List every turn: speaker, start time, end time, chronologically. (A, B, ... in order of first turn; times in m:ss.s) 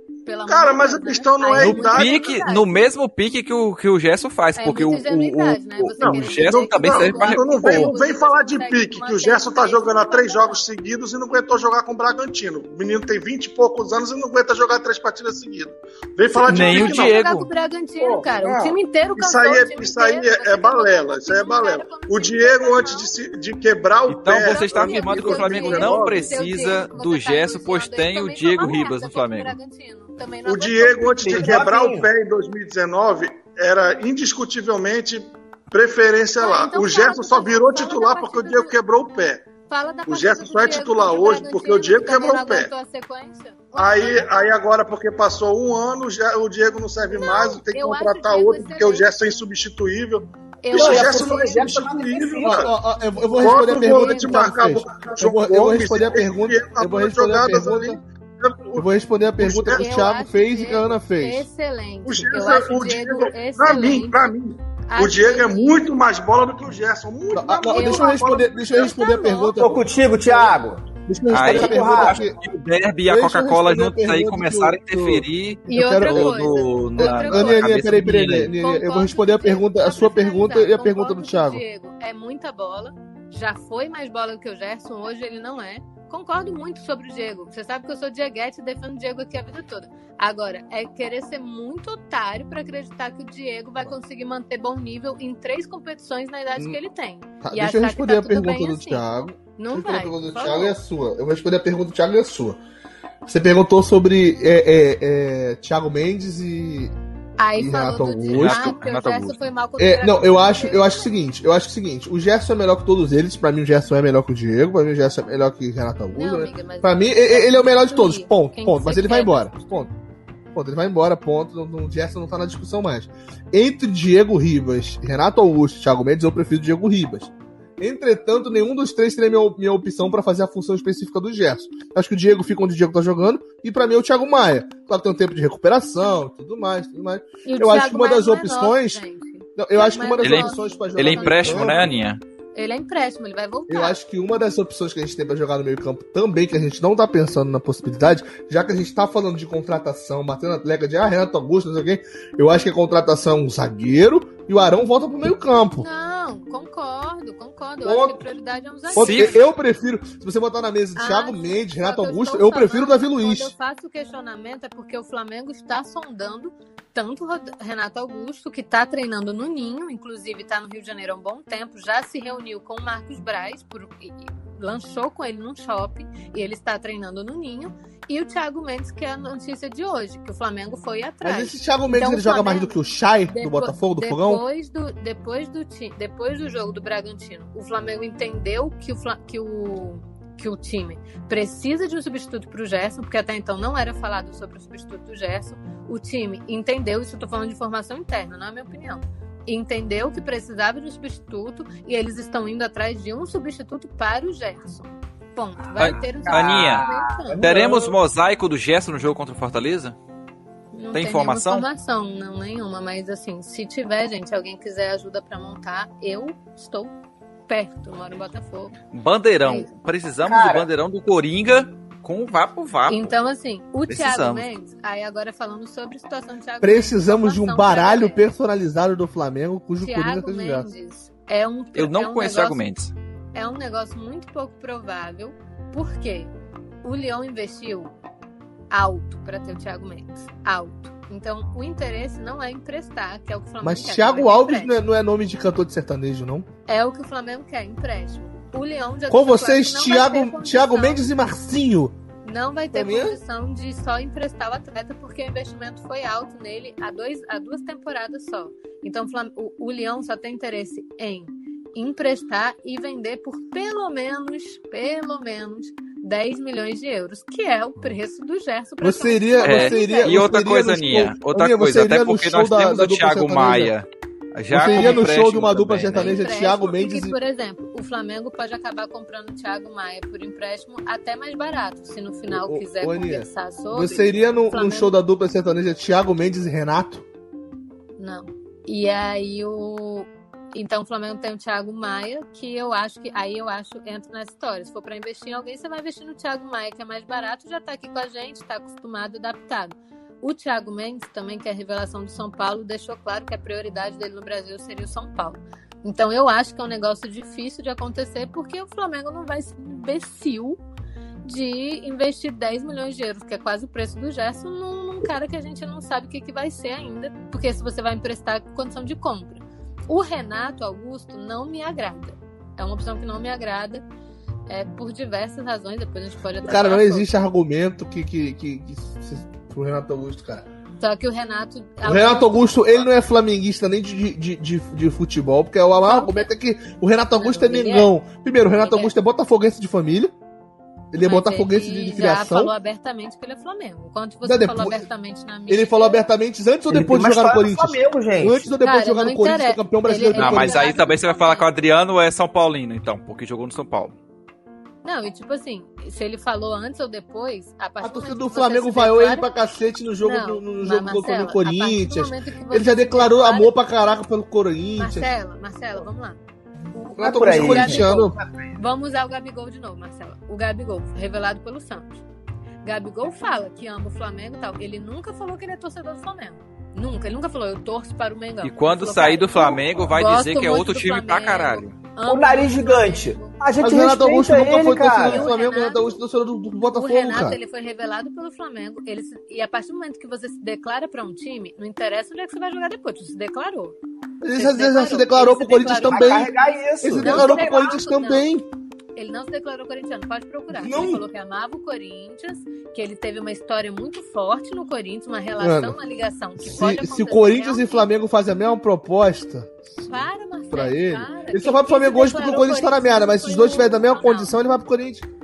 0:00.2-0:02.7 A
0:00.4-0:02.5 B
0:01.6-0:07.9 C
0:04.6-0:10.6 A
0:06.0-0:17.2 B
0:16.3-0:23.1 A
0:16.5-0:17.5 C
0:18.0-0:26.4 B
0:24.1-0:29.5 C
0:24.4-0:31.6 A
0:30.4-0:39.4 B
0:31.2-0:32.1 D
0:36.4-0:38.7 A
0:39.7-0:44.3 A
0:40.1-0:42.7 B
0:43.7-0:52.7 B
0:47.1-0:49.1 A
0:50.6-0:51.6 A
0:50.7-0:52.6 D
0:52.4-0:58.0 E
0:53.2-0:54.9 A
0:53.4-0:58.8 B
0:58.8-1:01.4 E
0:59.4-0:59.9 B
0:59.7-1:04.2 A
1:02.0-1:08.5 B
1:04.9-1:05.8 A
1:07.3-1:09.8 E
1:07.7-1:09.6 A
1:09.6-1:12.2 D
1:11.1-1:12.4 E
1:11.3-1:18.5 C
1:13.0-1:21.6 E
1:15.7-1:17.8 A
1:18.6-1:39.0 A
1:37.4-1:42.6 E
1:39.6-1:40.8 A
1:43.2-1:46.9 E
1:47.4-1:51.1 A
1:47.6-1:48.8 E
1:48.3-1:49.4 C
1:49.8-1:59.9 E
1:56.1-1:59.7 A
2:00.5-2:19.0 E
2:17.4-2:21.9 A
2:19.6-2:21.9 E
2:20.2-2:22.2 C
2:22.5-2:24.0 A
2:23.7-2:35.8 E
2:35.8-2:39.4 A
2:37.8-2:38.2 E
2:38.9-2:39.4 C
2:38.9-2:43.5 E
2:41.0-3:02.8 A
3:01.2-3:04.4 E
3:03.3-3:27.4 A
3:25.8-3:26.9 C
3:25.8-3:28.0 D
3:27.4-3:30.0 C
3:30.7-3:36.9 A
3:30.9-3:31.7 C
3:37.5-3:38.7 A
3:38.9-3:43.2 C
3:39.4-3:39.7 A
3:40.2-3:40.6 D
3:42.9-3:48.2 A
3:43.9-3:44.5 C
3:46.6-3:50.7 E
3:49.8-3:52.6 A
3:51.8-3:52.9 C
3:53.3-3:56.3 A
3:56.8-3:57.9 A
3:58.7-4:04.7 A
4:03.6-4:06.5 E
4:06.7-4:11.1 A
4:09.1-4:11.9 E
4:12.2-4:30.2 A
4:12.7-4:13.2 E
4:28.8-4:33.7 E
4:29.4-4:36.1 C
4:34.5-4:37.1 E
4:34.7-4:35.1 A
4:35.9-4:45.0 A
4:42.3-4:47.0 E
4:48.0-5:10.6 A
5:11.2-5:23.8 A
5:24.5-5:27.1 A
5:26.4-5:30.4 E
5:30.8-5:32.8 A
5:31.8-5:40.1 E
5:35.8-5:36.3 A
5:37.2-5:37.9 A
5:38.6-5:38.9 A
5:40.9-5:42.5 E
5:41.0-5:46.0 A
5:44.2-5:44.9 E
5:45.5-5:50.8 E
5:46.7-5:48.5 D
5:48.6-5:51.4 A
5:50.1-5:53.9 C
5:54.8-5:59.3 A
5:57.8-6:05.1 E
6:00.0-6:03.5 A
6:04.8-6:06.2 A
6:06.7-6:12.0 A
6:07.0-6:08.1 E
6:07.0-6:08.5 D
6:12.6-6:23.4 A
6:18.4-6:21.7 C
6:22.1-6:25.3 D
6:23.6-6:27.4 E
6:25.1-6:26.0 A
6:26.7-6:33.8 A
6:34.2-6:38.4 E
6:34.3-6:36.3 A
6:35.9-6:37.5 D
6:37.0-6:38.3 A
6:39.0-6:47.8 A
6:40.5-6:41.0 E
6:45.4-6:45.8 E
6:46.4-6:55.1 E
6:49.8-6:54.3 A